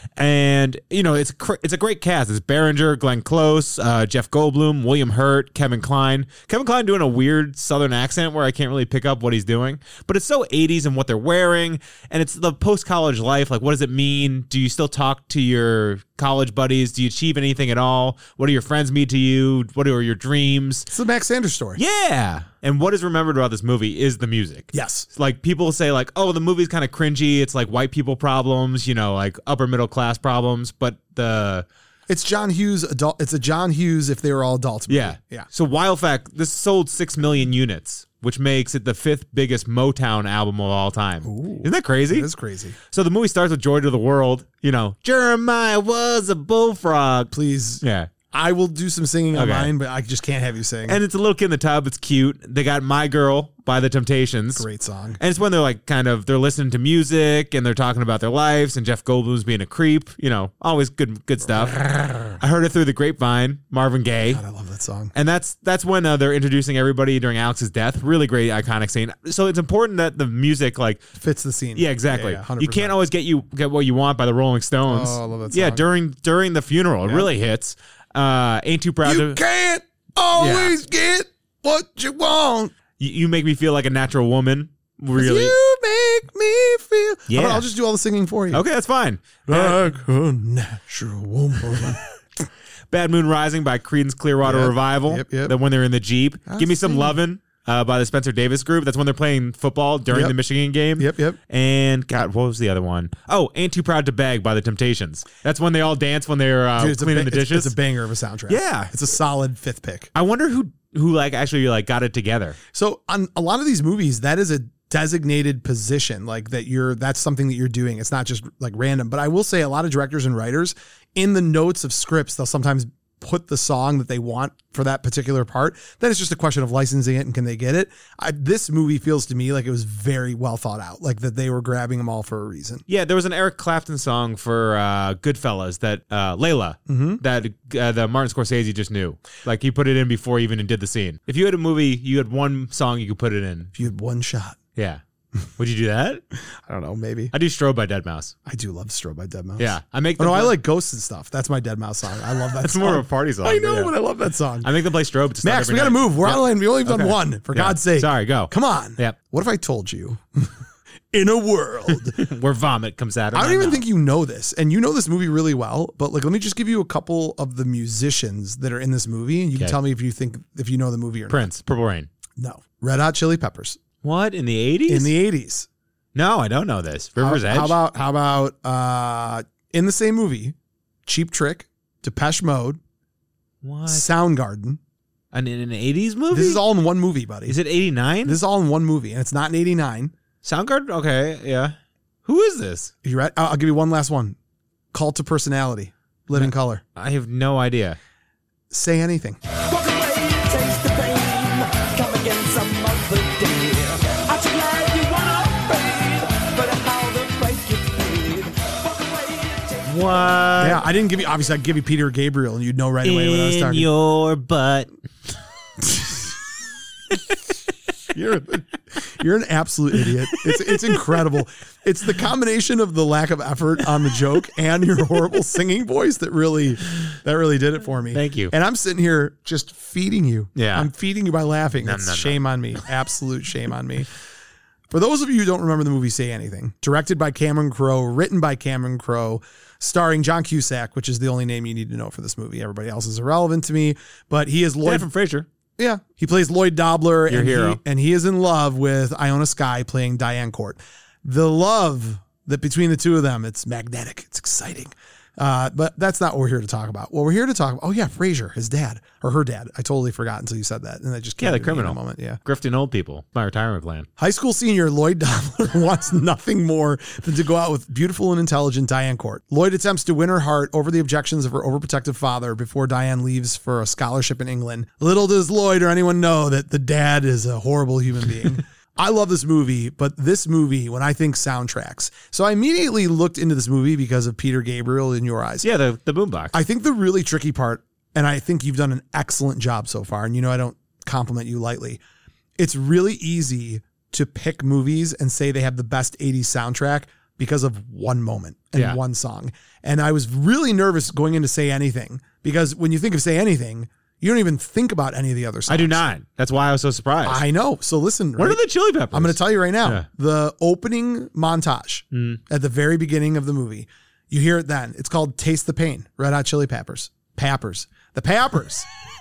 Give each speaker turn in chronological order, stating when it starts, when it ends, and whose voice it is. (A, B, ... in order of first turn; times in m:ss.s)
0:00.2-0:20.9 A
0:20.9-0:21.8 B
0:21.8-0:31.7 A
0:24.7-0:25.1 B
0:32.1-0:35.5 B
0:34.9-0:42.3 A
0:41.2-0:42.8 B
0:42.9-0:48.1 A
0:47.3-0:51.0 B
0:49.3-0:49.7 A
0:50.9-0:54.7 A
0:54.6-0:55.2 B
0:55.2-1:04.4 A
1:01.5-1:02.4 B
1:04.3-1:05.1 B
1:05.1-1:11.0 A
1:11.2-1:13.0 B
1:11.8-1:19.4 A
1:14.9-1:15.8 B
1:19.0-1:22.7 B
1:20.4-1:20.7 A
1:23.0-1:25.6 A
1:25.2-1:28.6 B
1:27.3-1:27.7 A
1:28.5-1:29.8 A
1:29.5-1:32.0 B
1:32.9-1:47.7 A
1:34.4-1:35.5 B
1:36.5-1:37.2 B
1:40.1-1:40.4 B
1:41.0-1:41.4 B
1:46.8-1:50.1 B
1:48.5-1:48.9 A
1:50.1-1:52.6 A
1:52.7-2:12.8 B
2:12.9-2:23.7 A
2:16.9-2:17.2 B
2:23.8-2:24.6 B
2:24.8-2:25.0 A
2:25.6-2:26.2 A
2:26.5-2:27.3 B
2:27.3-2:28.3 A
2:28.5-2:34.7 B
2:29.6-2:30.6 A
2:32.6-2:33.9 A
2:34.6-2:39.2 A
2:35.4-2:40.6 B
2:41.1-2:42.2 B
2:42.1-2:43.8 A
2:43.3-2:51.5 B
2:51.3-2:52.1 A
2:52.4-2:53.8 B
2:54.0-2:55.1 A
2:54.9-2:55.7 B
2:56.2-2:57.8 A
2:57.2-3:00.6 B
3:01.1-3:02.8 B
3:03.6-3:04.1 A
3:03.9-3:04.8 B
3:05.3-3:06.6 A
3:06.3-3:07.6 B
3:07.5-3:08.4 A
3:08.2-3:10.1 B
3:10.4-3:12.9 A
3:13.0-3:14.4 B
3:14.9-3:16.8 B
3:16.3-3:18.0 A
3:18.7-3:19.4 B
3:19.6-3:30.3 C
3:29.9-3:30.8 A
3:30.6-3:33.9 B
3:33.0-3:34.9 A
3:38.1-3:54.1 B
3:48.1-3:48.5 A
3:50.6-3:50.9 A
3:51.8-3:52.4 A
3:54.9-4:05.1 B
4:04.8-4:05.5 A
4:05.8-4:22.4 B
4:07.3-4:07.8 A
4:21.4-4:24.1 A
4:24.2-4:45.7 B
4:45.6-4:46.6 A
4:46.5-4:52.0 B
4:52.6-5:06.0 B
5:05.7-5:07.4 A
5:07.2-5:18.9 B
5:08.4-5:10.1 A
5:12.1-5:12.4 A